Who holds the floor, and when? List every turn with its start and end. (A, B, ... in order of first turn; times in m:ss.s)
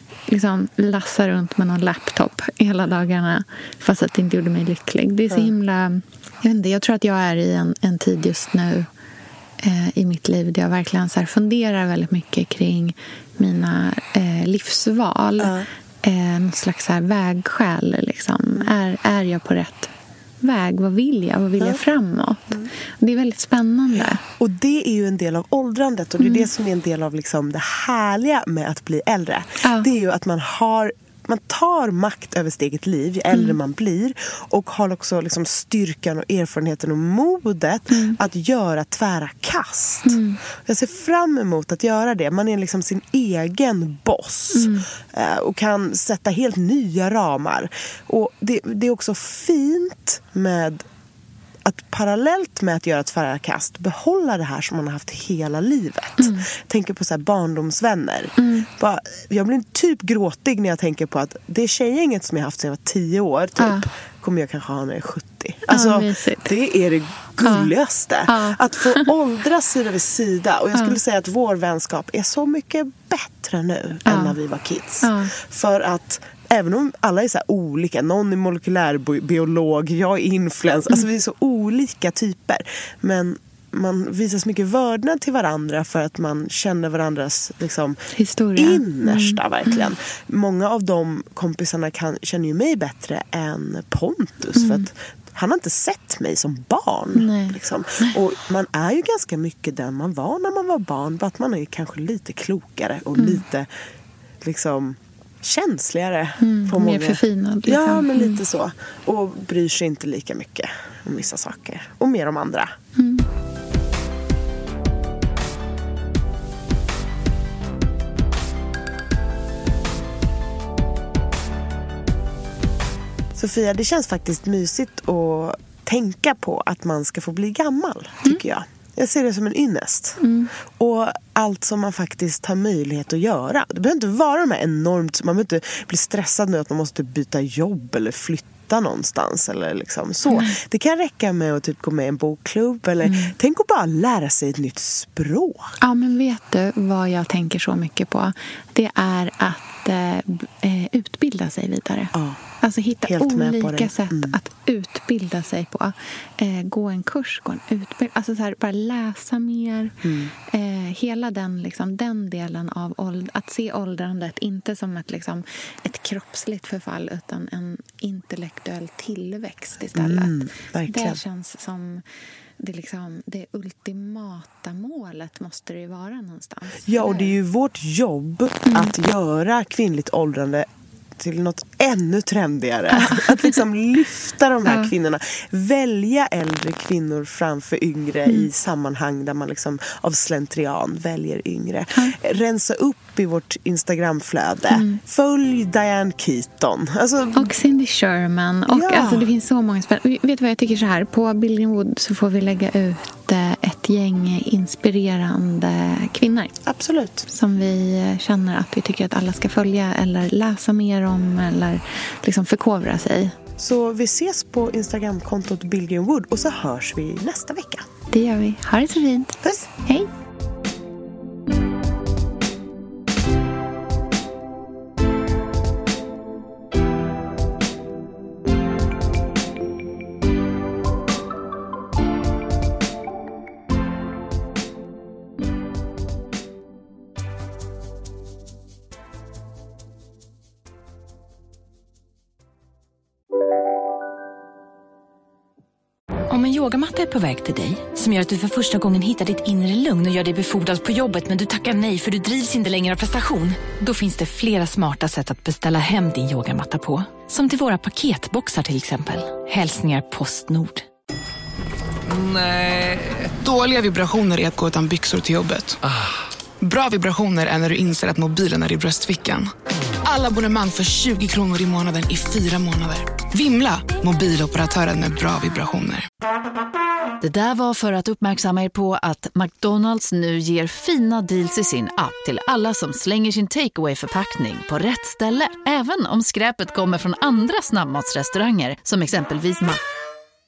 0:00.3-0:08.9 A
0:09.6-0:15.5 A
0:15.4-0:15.7 B
0:16.0-0:19.9 A
0:20.4-0:24.2 A
0:24.2-0:50.8 B
0:26.2-0:26.5 A
0:29.6-0:29.9 A
0:37.9-0:38.2 A
0:40.0-0:40.4 A
0:44.5-0:44.8 A
0:51.6-1:28.0 B
0:56.2-0:56.4 A
0:58.4-0:58.7 A
1:03.6-1:03.8 A
1:05.7-1:06.5 A
1:07.4-1:07.7 A
1:08.3-1:09.1 A
1:14.1-1:14.4 A
1:15.0-1:15.3 A
1:28.1-1:29.9 A
1:28.6-1:43.7 B
1:34.6-1:34.9 A
1:37.2-1:38.1 A
1:44.4-1:52.7 B
1:46.4-1:48.4 A
1:53.0-1:53.2 A
2:03.3-2:10.2 B
2:10.2-2:10.5 A
2:10.8-2:25.8 B
2:20.3-2:20.5 A
2:23.0-2:23.3 A
2:25.8-2:39.9 A
2:32.1-2:32.4 B
2:33.1-2:34.3 B
2:40.0-2:40.3 B
2:40.4-2:50.3 A
2:50.0-2:51.2 B
2:50.9-2:52.0 A
2:52.6-2:57.3 A
2:56.9-3:00.7 B
3:01.2-3:17.5 B
3:02.9-3:03.6 A
3:14.7-3:15.0 A
3:17.4-3:26.5 A
3:18.7-3:19.3 B
3:26.6-3:27.2 B
3:27.2-3:33.3 A
3:33.6-3:37.9 B
3:38.1-3:40.1 A
4:06.3-4:20.8 C
4:22.1-4:25.8 D
4:26.6-4:29.5 D
4:30.0-4:36.1 D
4:37.2-4:49.8 E